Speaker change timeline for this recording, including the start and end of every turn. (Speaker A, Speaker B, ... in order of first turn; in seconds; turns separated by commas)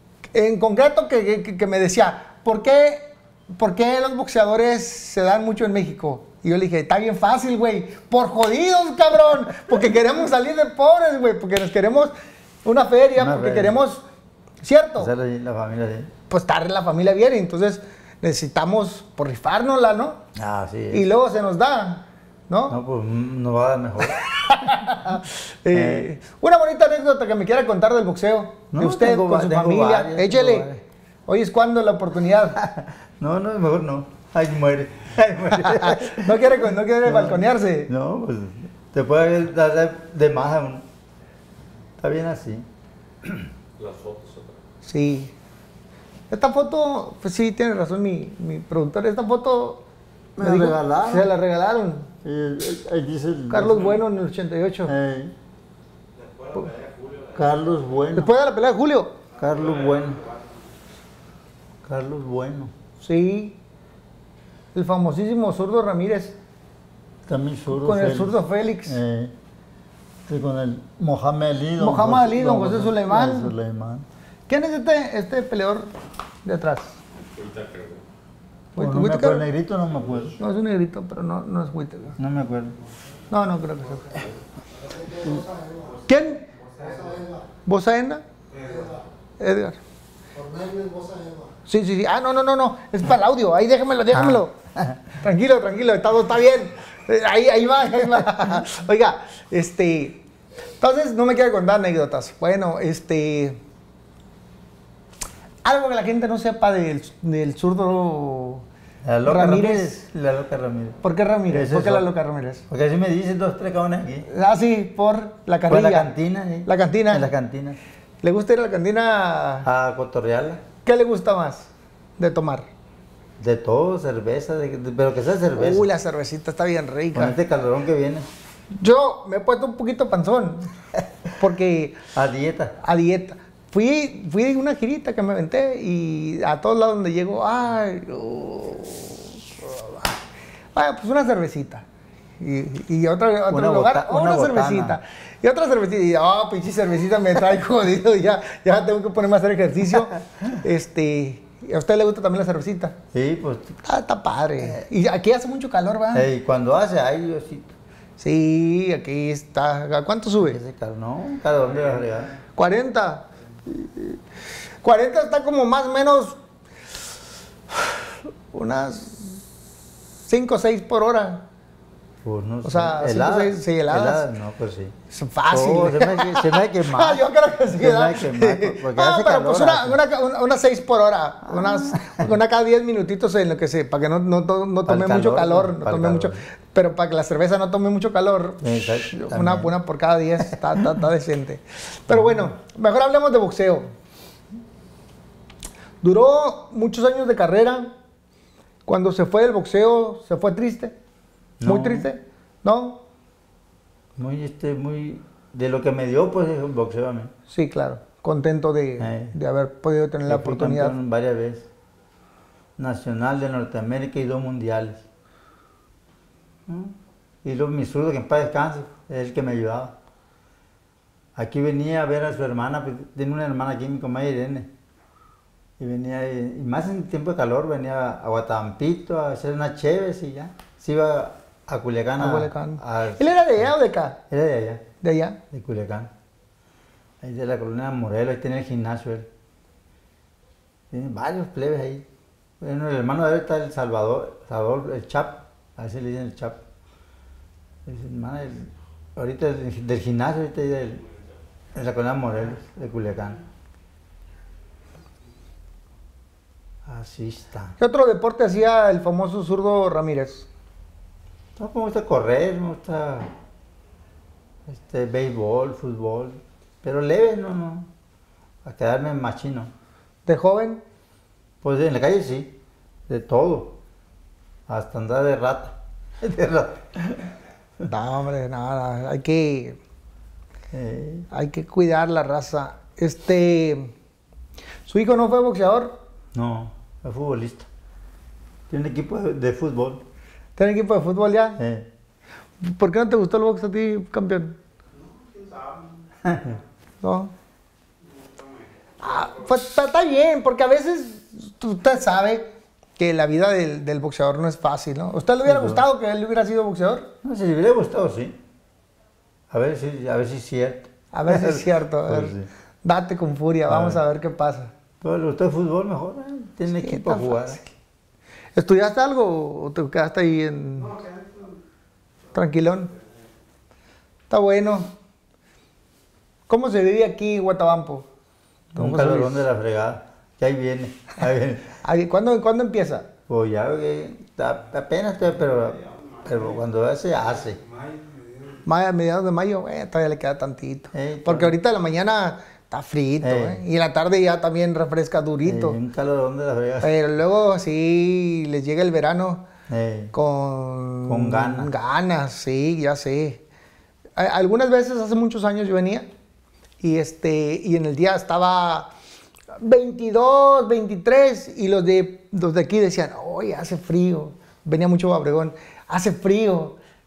Speaker A: 0.3-12.1, Speaker A: 12.6-14.0, Speaker B: 13.2-13.8, Speaker A: 14.6-15.1, Speaker B: 15.0-16.1, Speaker A: 16.3-20.2, Speaker B: 20.3-21.0, Speaker A: 20.9-22.8, Speaker B: 22.7-24.9, Speaker A: 24.0-30.7, Speaker B: 25.7-26.1, Speaker B: 28.7-30.8, Speaker A: 31.3-32.6, Speaker B: 32.5-40.8, Speaker A: 35.5-37.9, Speaker B: 42.0-42.6, Speaker C: 43.8-44.6, Speaker A: 44.9-45.3, Speaker A: 46.3-49.8, Speaker B: 50.4-51.3, Speaker A: 50.4-52.1, Speaker B: 52.2-54.0, Speaker A: 53.5-54.9, Speaker B: 54.9-55.3, Speaker C: 56.1-57.8, Speaker B: 57.3-58.3, Speaker A: 58.1-59.1, Speaker B: 59.4-60.2, Speaker C: 59.4-60.5, Speaker B: 61.8-62.7, Speaker A: 63.0-63.5, Speaker A: 64.7-66.3, Speaker B: 67.3-69.3, Speaker A: 67.7-69.0, Speaker B: 70.3-74.0, Speaker A: 71.8-73.5, Speaker A: 74.5-75.9, Speaker A: 76.4-77.0, Speaker C: 77.2-78.0, Speaker B: 78.8-80.4, Speaker A: 78.8-79.5, Speaker A: 80.4-82.2, Speaker B: 82.2-82.8, Speaker A: 83.3-84.3, Speaker A: 85.9-86.5, Speaker A: 87.6-89.8, Speaker A: 90.4-94.5, Speaker B: 94.1-95.0, Speaker A: 95.1-100.2, Speaker A: 100.8-103.6, Speaker A: 105.6-108.6, Speaker B: 109.0-112.1, Speaker A: 109.2-109.9, Speaker A: 111.0-112.6, Speaker B: 112.7-114.3, Speaker A: 114.3-116.1, Speaker B: 115.7-117.8, Speaker A: 116.7-117.3, Speaker A: 118.2-119.7, Speaker B: 119.6-120.6, Speaker A: 120.8-122.7, Speaker B: 123.4-125.9, Speaker A: 125.5-127.4, Speaker B: 127.1-128.3, Speaker A: 128.7-130.7, Speaker A: 131.4-132.1, Speaker B: 132.1-132.7, Speaker A: 132.8-140.2, Speaker A: 140.7-141.8, Speaker A: 142.4-152.9, Speaker B: 143.5-145.0, Speaker B: 153.1-153.8, Speaker A: 153.8-156.3, Speaker B: 156.1-157.7, Speaker A: 158.2-160.6, Speaker B: 160.4-162.4, Speaker A: 162.6-164.2, Speaker A: 164.8-166.4, Speaker A: 167.7-169.4, Speaker A: 170.3-171.4, Speaker B: 172.2-174.9, Speaker A: 172.6-174.2, Speaker A: 175.1-193.9, Speaker B: 175.5-180.0, Speaker B: 181.5-182.3, Speaker B: 184.8-186.4, Speaker B: 188.6-189.7, Speaker B: 192.1-192.5, Speaker A: 196.0-197.9, Speaker A: 198.8-200.9, Speaker B: 201.6-202.1, Speaker A: 201.7-203.0, Speaker B: 204.2-207.3, Speaker A: 207.5-210.9, Speaker B: 209.0-209.3, Speaker B: 210.3-211.6, Speaker B: 212.8-215.0, Speaker B: 216.7-219.9, Speaker B: 221.3-224.7, Speaker B: 225.8-233.7, Speaker A: 232.2-234.2, Speaker B: 234.3-234.8, Speaker A: 235.0-235.4, Speaker B: 235.5-236.1, Speaker B: 237.2-239.3, Speaker B: 240.9-242.0, Speaker B: 242.6-246.6, Speaker B: 247.8-251.0, Speaker B: 251.7-253.4, Speaker B: 256.8-257.7, Speaker A: 257.8-260.4, Speaker B: 261.6-263.3, Speaker B: 264.6-267.9, Speaker B: 268.6-269.7, Speaker A: 270.2-270.8, Speaker B: 271.6-272.5, Speaker B: 273.1-273.8, Speaker B: 274.7-277.3, Speaker A: 277.9-279.8, Speaker B: 280.7-281.3, Speaker A: 281.3-283.9, Speaker A: 284.9-285.9, Speaker B: 286.3-287.7, Speaker B: 288.7-290.0, Speaker A: 290.6-291.6, Speaker B: 291.6-291.9, Speaker A: 292.6-294.6, Speaker C: 295.2-295.9, Speaker B: 296.2-296.6, Speaker A: 297.0-297.3, Speaker C: 298.2-298.6, Speaker A: 299.0-302.5, Speaker A: 303.0-307.1, Speaker B: 305.4-305.8, Speaker B: 307.2-308.4, Speaker B: 309.5-312.5, Speaker A: 311.1-314.7, Speaker B: 313.7-314.0, Speaker B: 315.0-317.6, Speaker A: 316.7-317.7, Speaker A: 318.6-321.1, Speaker A: 322.3-322.9, Speaker A: 324.3-324.9, Speaker A: 326.5-328.1, Speaker A: 328.8-329.4, Speaker B: 328.8-331.8, Speaker A: 331.8-333.1, Speaker B: 333.3-337.6, Speaker A: 338.6-345.8, Speaker B: 340.9-341.5, Speaker B: 343.2-343.6, Speaker B: 345.4-346.9, Speaker A: 346.8-349.4, Speaker B: 349.7-350.1, Speaker A: 350.1-353.4, Speaker B: 351.1-351.7, Speaker A: 354.2-356.1, Speaker A: 356.8-358.9, Speaker A: 359.6-366.8